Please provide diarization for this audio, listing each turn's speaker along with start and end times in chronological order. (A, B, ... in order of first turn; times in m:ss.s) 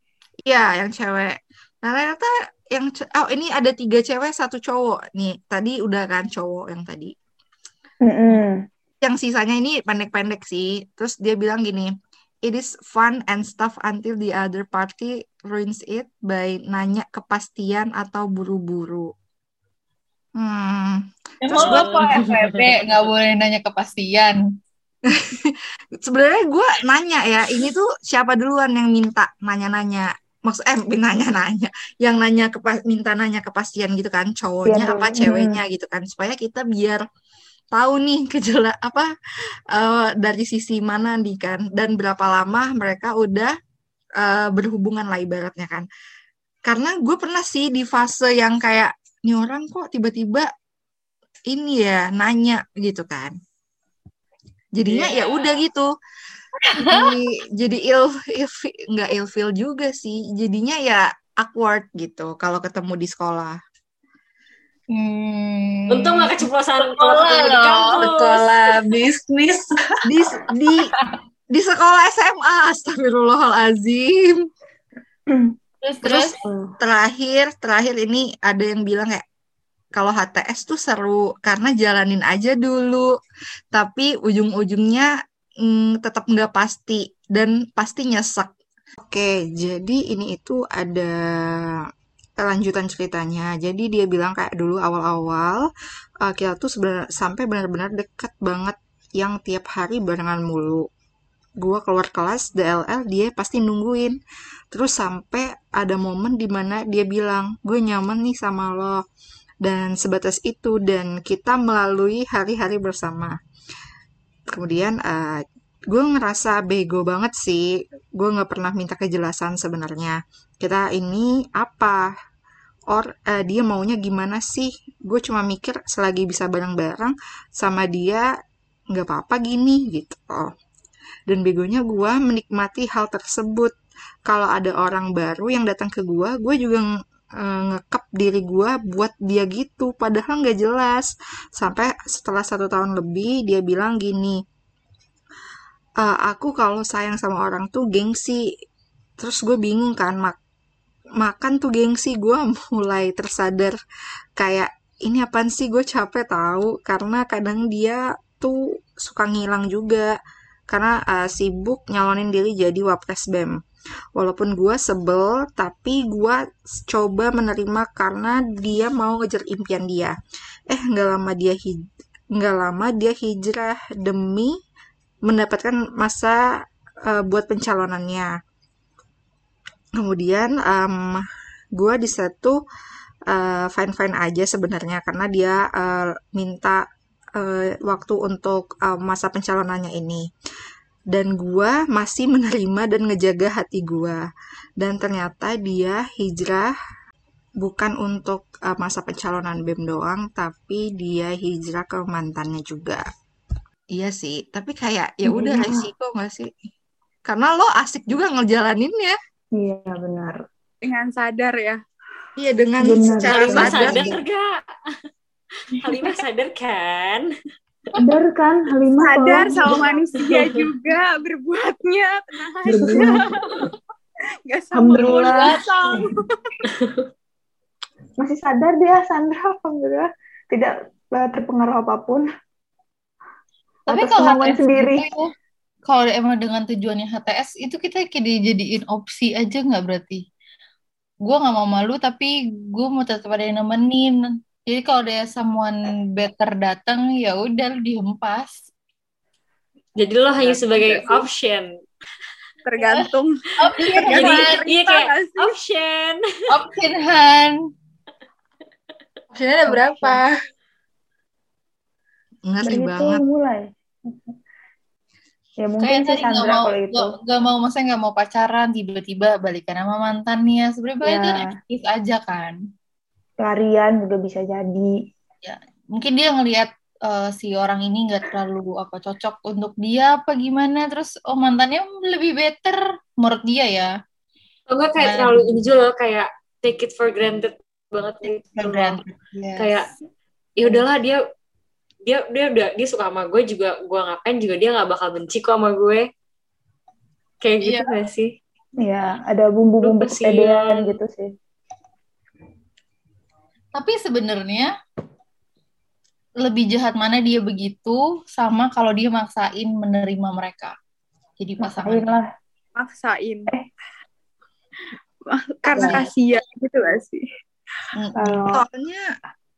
0:00.5-0:07.1 A
0:08.0-0:08.6 B
0:09.0-0:11.9 A
0:12.4-0:19.1 A
0:20.4-0:22.0 A
0:21.4-0:24.4 C
0:21.6-0:22.7 D
0:25.1-0:37.0 A
0:34.6-0:35.6 B
0:37.7-0:39.1 A
0:39.7-0:43.6 A
0:44.2-0:45.9 A
0:46.6-0:50.5 A
0:51.5-0:53.3 A
0:54.8-0:55.9 A
0:54.9-0:55.6 D
0:56.6-0:57.1 C
0:56.9-1:03.6 A
1:05.0-1:08.0 C
1:05.9-1:08.6 D
1:08.0-1:09.5 A
1:10.0-1:10.9 A
1:11.5-1:14.5 A
1:15.8-1:16.4 C
1:16.0-1:19.2 A
1:16.4-1:16.7 B
1:20.0-1:23.1 A
1:23.7-1:25.1 A
1:25.6-1:31.8 A
1:32.4-1:35.7 A
1:36.2-1:40.9 A
1:41.6-1:44.2 A
1:44.7-1:49.0 A
1:49.6-1:53.4 A
1:54.5-2:02.1 A
2:02.9-2:08.3 A
2:08.9-2:10.5 A
2:11.3-2:13.7 A
2:14.3-2:16.9 A
2:17.4-2:24.4 A
2:26.0-2:28.5 A
2:29.2-2:30.4 A
2:31.2-2:33.8 A
2:34.4-2:40.1 A
2:40.7-2:43.6 A
2:44.2-2:50.2 A
2:50.7-2:51.8 A
2:52.4-2:54.6 A
2:55.3-2:56.4 A
2:57.0-2:58.3 A
3:00.0-3:02.6 A
3:03.3-3:06.8 A
3:07.4-3:10.3 A
3:11.1-3:14.2 A
3:14.8-3:16.7 A
3:17.6-3:23.0 A
3:23.9-3:26.5 A
3:25.2-3:25.9 B
3:27.3-3:29.2 A
3:29.5-3:30.4 B
3:30.8-3:31.8 E
3:32.4-3:34.2 A
3:32.8-3:34.2 B
3:33.3-3:34.5 D
3:35.7-3:37.3 D
3:38.0-3:39.9 B
3:39.0-3:43.7 E
3:40.2-3:40.6 D
3:42.7-3:43.2 B
3:44.5-3:46.3 E
3:44.8-3:45.5 B
3:45.0-3:45.6 C
3:48.2-3:52.3 B
3:53.9-3:55.1 B
3:53.9-3:55.3 C
3:55.9-4:00.2 C
4:01.3-4:08.6 C
4:10.0-4:11.7 D
4:10.5-4:11.2 E
4:12.7-4:15.6 E
4:13.6-4:14.6 C
4:14.1-4:16.2 D
4:16.5-4:17.6 C
4:19.3-4:20.3 A
4:19.7-4:20.1 C
4:22.5-4:23.2 A
4:22.6-4:24.3 B
4:25.6-4:27.0 B
4:25.8-4:32.6 C
4:31.1-4:31.5 B
4:33.4-4:34.9 B
4:35.4-4:43.9 C
4:44.7-4:49.0 D
4:45.0-4:45.6 C
4:48.5-4:49.8 C
4:49.6-4:49.9 D
4:50.6-4:51.2 D
4:52.1-4:56.1 D
4:57.4-4:58.3 D
4:57.6-4:57.9 C
4:58.8-5:01.3 B
4:59.8-5:01.0 D
5:03.8-5:04.7 C
5:06.4-5:10.8 C
5:11.4-5:12.2 C
5:11.6-5:12.3 B
5:12.8-5:13.5 E
5:15.3-5:17.2 E
5:15.7-5:16.0 B
5:15.8-5:16.0 C
5:18.0-5:18.4 C
5:18.2-5:18.6 B
5:18.5-5:19.0 A